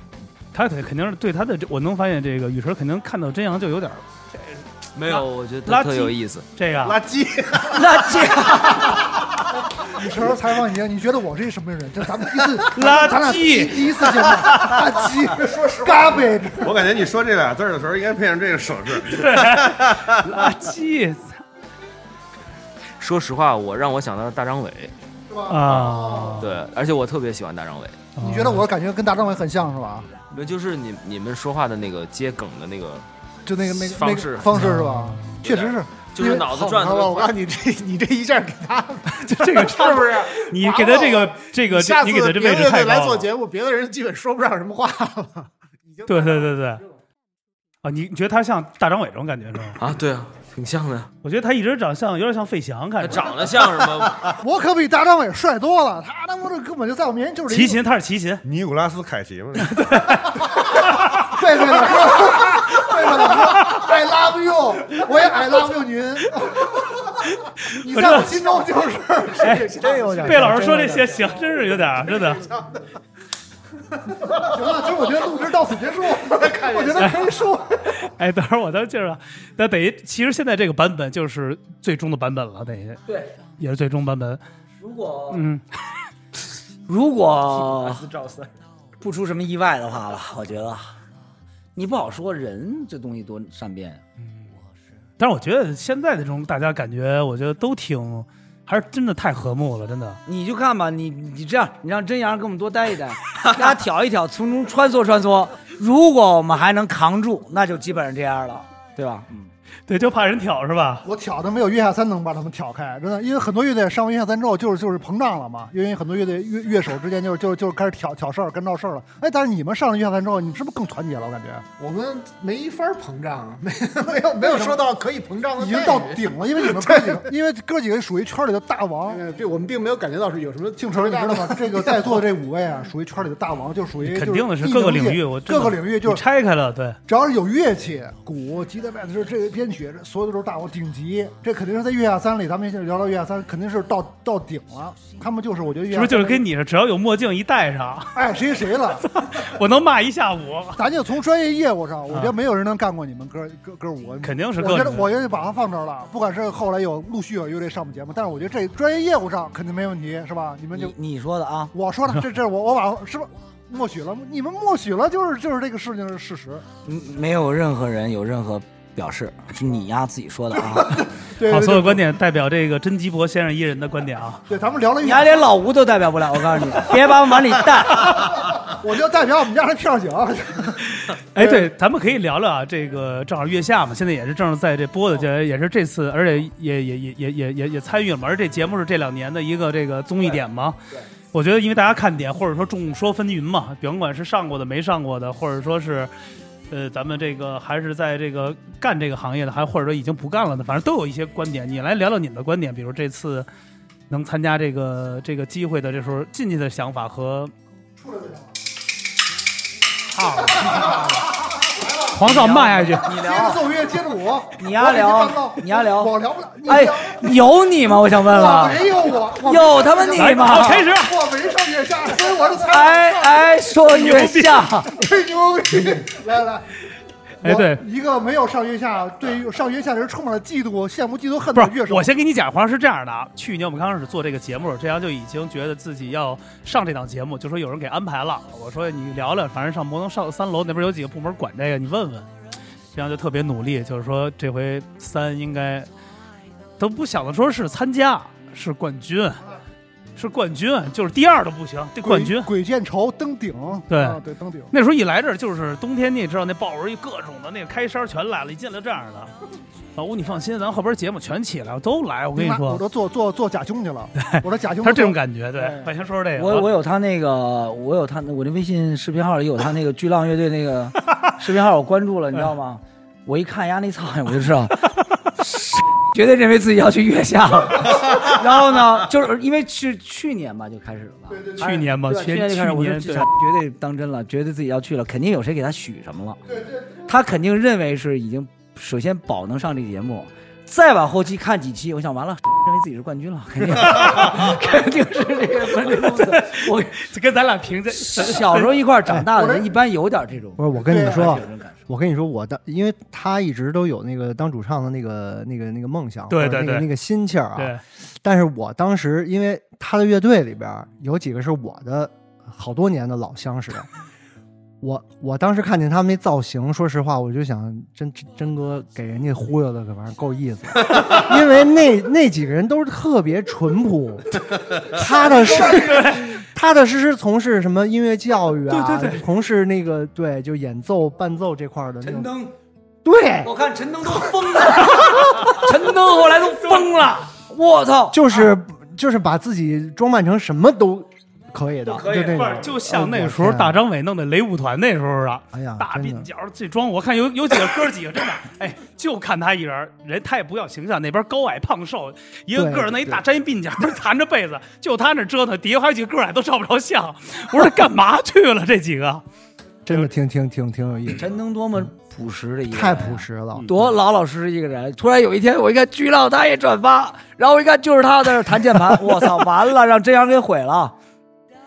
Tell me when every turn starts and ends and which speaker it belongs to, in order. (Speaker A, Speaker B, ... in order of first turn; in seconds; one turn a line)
Speaker A: 0.5-7.0
Speaker B: 4.9-6.5
Speaker C: 6.8-8.2
Speaker D: 7.6-9.1
Speaker E: 9.8-16.8
Speaker A: 12.7-14.0
Speaker F: 15.4-16.2
Speaker C: 16.6-20.5
Speaker A: 19.0-21.4
Speaker B: 23.0-24.9
Speaker E: 25.3-26.4
Speaker A: 25.5-26.6
Speaker B: 26.4-28.0
Speaker A: 28.2-28.6
Speaker E: 28.2-30.1
Speaker B: 30.3-33.0
Speaker E: 33.5-37.0
Speaker B: 33.6-34.7
Speaker A: 34.5-35.4
Speaker B: 35.3-37.4
Speaker F: 37.0-46.7
Speaker A: 39.1-43.3
Speaker A: 46.0-46.8
Speaker A: 47.8-49.8
Speaker B: 49.8-51.1
Speaker A: 51.2-53.3
Speaker B: 53.0-54.3
Speaker E: 54.4-57.8
Speaker A: 57.5-58.4
Speaker C: 58.4-60.1
Speaker A: 59.6-61.2
Speaker E: 60.4-67.2
Speaker A: 67.7-68.4
Speaker E: 67.8-69.6
Speaker F: 69.3-72.8
Speaker A: 69.4-69.7
Speaker G: 69.8-71.2
Speaker A: 70.2-72.4
Speaker E: 74.3-77.9
Speaker F: 74.5-75.0
Speaker F: 76.3-77.3
Speaker A: 78.0-83.0
Speaker D: 83.1-83.3
Speaker A: 83.6-84.4
Speaker D: 84.8-85.4
Speaker A: 85.3-85.7
Speaker D: 86.9-88.1
Speaker F: 87.9-88.5
Speaker D: 89.0-91.0
Speaker D: 91.8-94.0
Speaker A: 94.2-94.5
Speaker A: 95.2-100.2
Speaker D: 100.2-109.5
Speaker A: 109.9-111.0
Speaker E: 111.0-121.7
Speaker F: 121.8-127.2
Speaker E: 124.3-124.8
Speaker E: 125.6-129.2
Speaker F: 129.1-132.2
Speaker E: 130.8-136.2
Speaker A: 134.0-137.0
Speaker E: 137.1-146.4
Speaker A: 145.9-148.2
Speaker E: 148.1-149.1
Speaker A: 149.2-150.8
Speaker E: 150.8-160.9
Speaker A: 154.2-155.1
Speaker D: 160.7-161.7
Speaker E: 161.7-166.6
Speaker D: 166.8-171.1
Speaker E: 170.7-172.0
Speaker A: 171.4-174.4
Speaker E: 174.5-175.4
Speaker D: 175.0-178.3
Speaker E: 178.0-180.8
Speaker A: 181.0-190.8
Speaker E: 181.4-181.7
Speaker A: 191.3-196.1
Speaker A: 196.7-203.5
Speaker A: 204.1-207.5
Speaker E: 208.0-208.5
Speaker A: 210.1-211.1
Speaker E: 210.5-212.2
Speaker A: 212.1-213.1
Speaker D: 212.2-213.8
Speaker E: 213.0-217.4
Speaker D: 214.6-220.9
Speaker E: 218.2-223.6
Speaker A: 220.2-221.1
Speaker D: 222.5-225.0
Speaker A: 223.8-224.7
Speaker E: 224.9-226.7
Speaker E: 227.4-232.1
Speaker A: 227.4-227.8
Speaker A: 231.5-242.3
Speaker A: 242.9-245.9
Speaker A: 246.8-249.4
Speaker A: 250.2-252.5
Speaker E: 252.0-254.7
Speaker A: 253.9-254.2
Speaker A: 254.7-259.3
Speaker A: 259.9-262.8
Speaker E: 262.3-265.9
Speaker A: 264.2-266.7
Speaker D: 266.3-286.4
Speaker E: 281.3-281.7
Speaker A: 281.6-283.3
Speaker E: 286.4-287.0
Speaker D: 287.0-297.0
Speaker A: 296.1-298.7
Speaker D: 297.9-301.8
Speaker E: 299.3-299.7
Speaker G: 300.6-313.9
Speaker E: 300.9-301.4
Speaker A: 306.3-306.9
Speaker A: 307.6-307.8
Speaker G: 314.8-332.3
Speaker D: 325.1-326.0
Speaker A: 325.5-326.3
Speaker A: 328.7-329.2
Speaker D: 332.0-332.5
Speaker G: 333.0-333.5
Speaker D: 333.4-338.4
Speaker G: 338.1-343.8
Speaker D: 341.8-342.7
Speaker A: 342.3-359.2
Speaker G: 345.5-346.3
Speaker G: 352.5-353.2
Speaker G: 359.9-361.3
Speaker D: 361.1-370.9
Speaker G: 362.7-363.7
Speaker A: 363.5-363.9